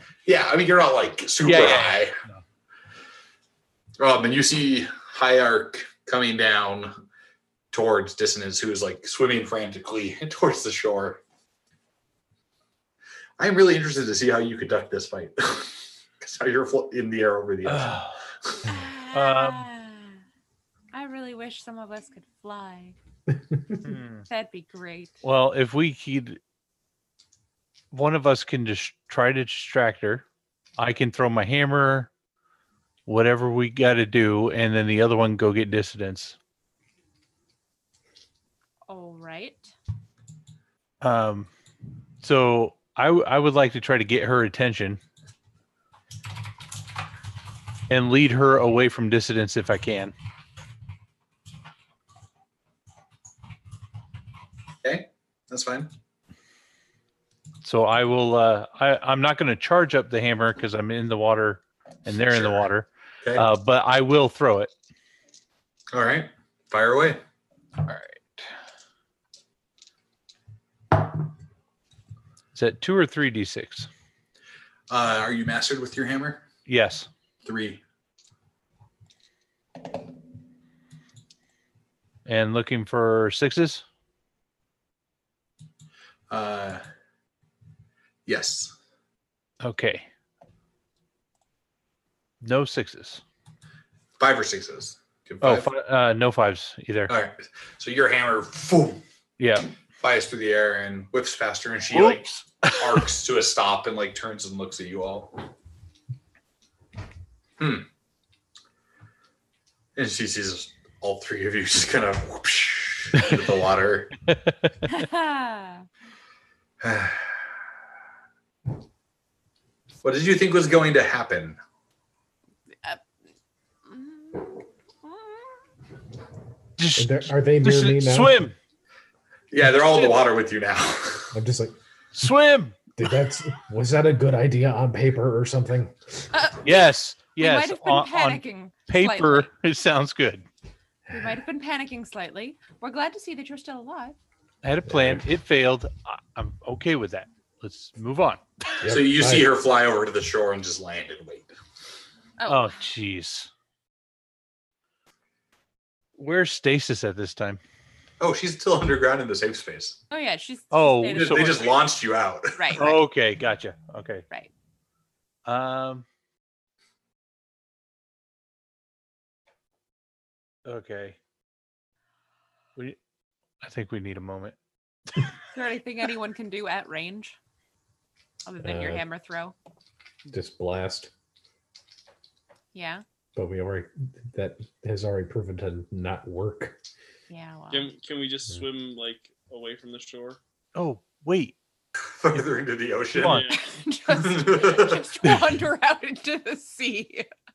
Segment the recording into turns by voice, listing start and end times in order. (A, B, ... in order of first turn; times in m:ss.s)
0:00.2-0:02.2 A
0:01.4-0:02.4 B
0:04.0-0:06.9 A
0:07.7-0:11.2 A
0:13.4-0:18.6 A
0:17.6-0:18.3 B
0:18.6-0:20.2 C
0:19.1-0:19.6 B
0:20.9-0:23.0 C
0:23.5-0:23.8 D
0:23.8-0:24.2 B
0:24.3-0:25.2 C
0:25.2-0:26.4 B
0:27.9-0:30.2 B
0:30.8-0:32.1 B
0:33.0-0:36.4 B
0:38.9-0:39.7 C
0:41.0-0:41.5 B
0:42.2-0:45.0 B
0:47.9-0:50.1 B
0:54.8-0:55.9 A
0:57.6-1:04.7 B
1:02.3-1:02.7 A
1:05.9-1:07.2 A
1:07.9-1:08.2 B
1:12.5-1:13.9 B
1:14.9-1:16.4 A
1:16.6-1:17.1 B
1:17.4-1:17.8 A
1:22.2-1:23.8 B
1:26.3-1:26.8 A
1:28.2-1:28.7 A
1:29.6-1:30.1 B
1:32.4-1:33.2 B
1:34.2-1:35.7 A
1:35.4-1:37.1 B
1:37.1-1:39.0 A
1:39.4-1:39.7 B
1:40.0-1:45.4 A
1:41.9-1:43.0 B
1:47.6-1:47.9 A
1:50.0-1:54.1 A
1:54.3-1:54.7 B
1:54.9-1:55.8 C
1:56.8-1:57.4 A
2:00.0-2:01.6 A
2:03.8-2:05.6 C
2:06.8-2:08.5 B
2:07.0-2:08.4 D
2:09.5-2:11.4 A
2:11.3-2:11.7 D
2:12.1-2:12.9 B
2:13.0-2:16.0 D
2:16.3-2:16.8 C
2:16.6-2:20.4 B
2:17.4-2:19.5 C
2:21.1-2:24.2 C
2:24.6-2:28.8 B
2:24.9-2:25.2 D
2:28.8-2:29.5 D
2:28.8-2:31.5 A
2:32.4-2:32.8 C
2:32.5-2:33.5 B
2:36.2-2:37.6 B
2:38.2-2:40.0 A
2:40.1-2:41.8 C
2:40.7-2:41.6 B
2:41.1-2:42.8 A
2:42.5-2:43.0 C
2:42.7-2:44.2 B
2:45.4-2:46.0 B
2:50.6-2:51.2 B
2:53.6-2:54.6 B
2:55.5-2:57.4 C
2:58.4-2:59.5 C
2:58.6-2:59.0 D
3:00.3-3:01.1 D
3:02.7-3:03.0 C
3:03.3-3:06.8 D
3:07.3-3:07.9 C
3:07.7-3:10.4 E
3:10.7-3:11.6 B
3:12.2-3:13.4 A
3:13.2-3:13.5 B
3:13.2-3:13.6 E
3:13.5-3:17.3 C
3:14.1-3:15.0 A